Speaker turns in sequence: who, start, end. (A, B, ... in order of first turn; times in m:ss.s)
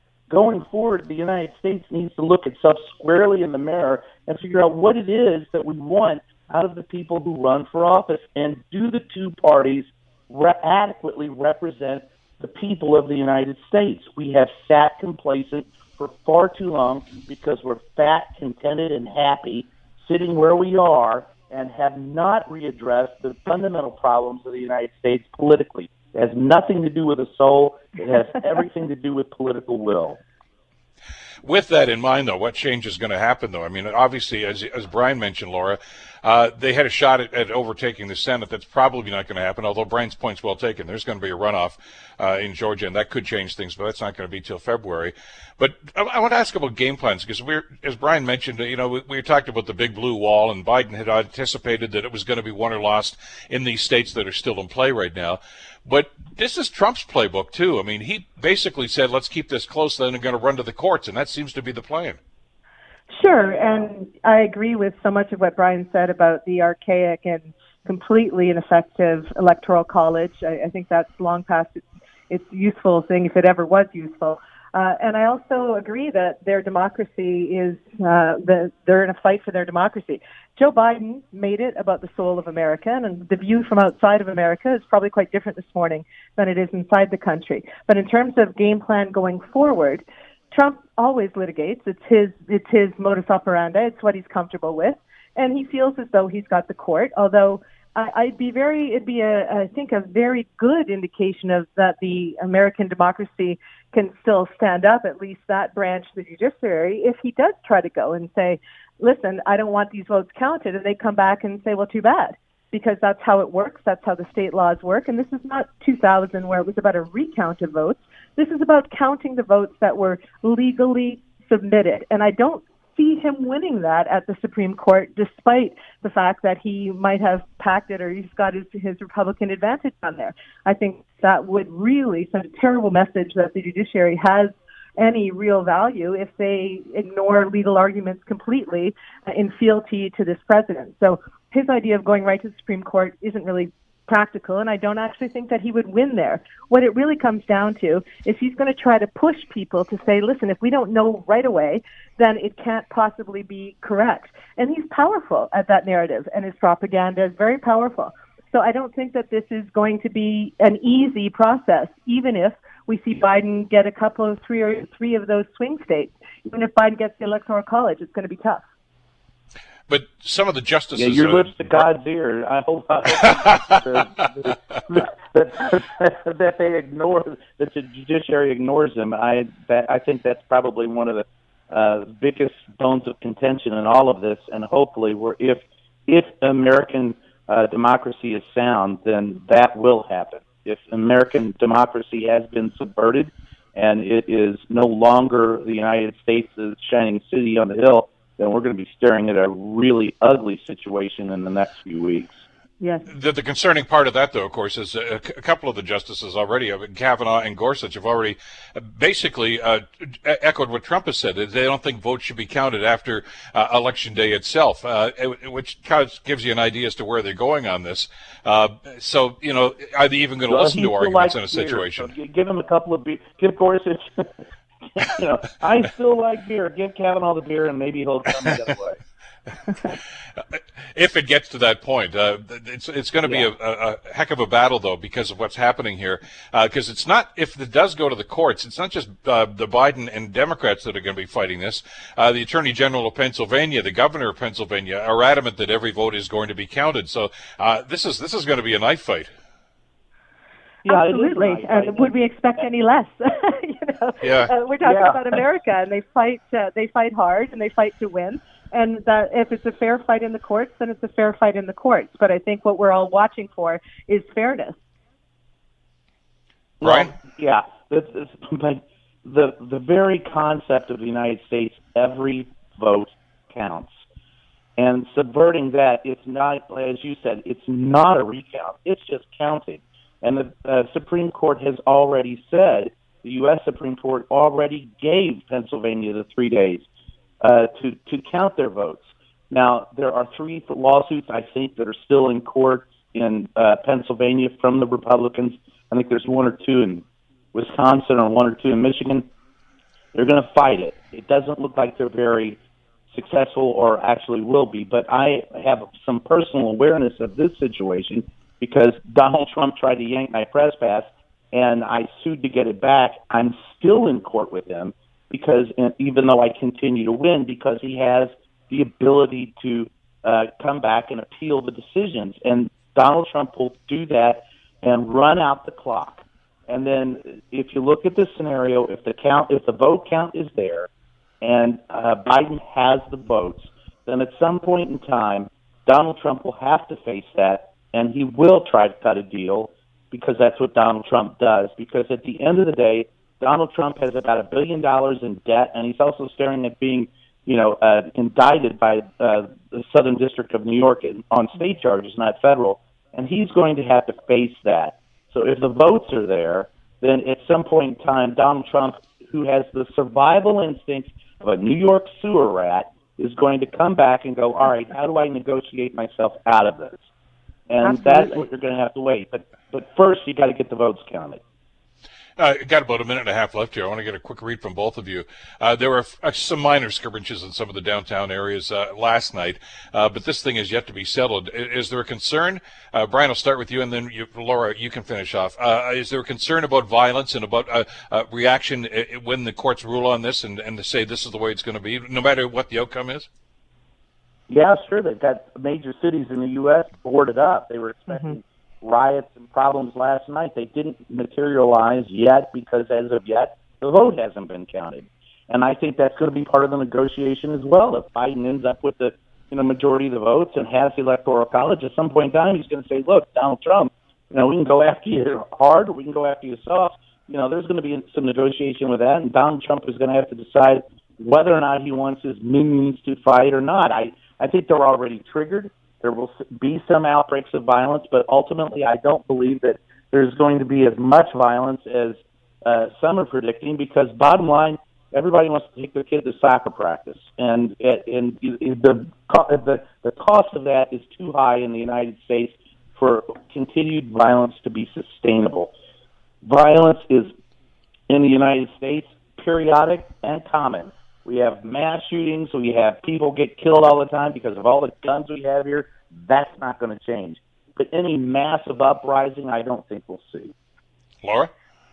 0:00.3-0:30.2 A
0:31.4-1:02.2 B
1:03.1-2:48.6 C
2:49.9-2:51.7 B
2:51.0-3:22.4 A
3:22.8-3:23.1 C
3:23.1-3:42.1 B
3:40.5-3:49.0 A
3:50.9-4:09.3 B
3:53.2-3:53.5 A
4:10.8-4:24.8 C
4:10.8-4:12.6 A
4:14.2-4:14.5 B
4:14.8-4:15.4 A
4:26.8-4:34.0 A
4:26.8-4:27.1 B
4:34.8-4:46.8 A
4:47.4-4:59.3 A
5:00.1-5:02.6 A
5:03.1-5:30.9 A
5:31.4-6:07.1 A
6:07.7-6:11.4 A
6:07.8-6:08.4 C
6:12.4-6:33.3 B
6:34.5-7:25.7 A
7:26.4-7:27.3 A
7:28.1-7:40.5 A
7:41.2-7:41.5 B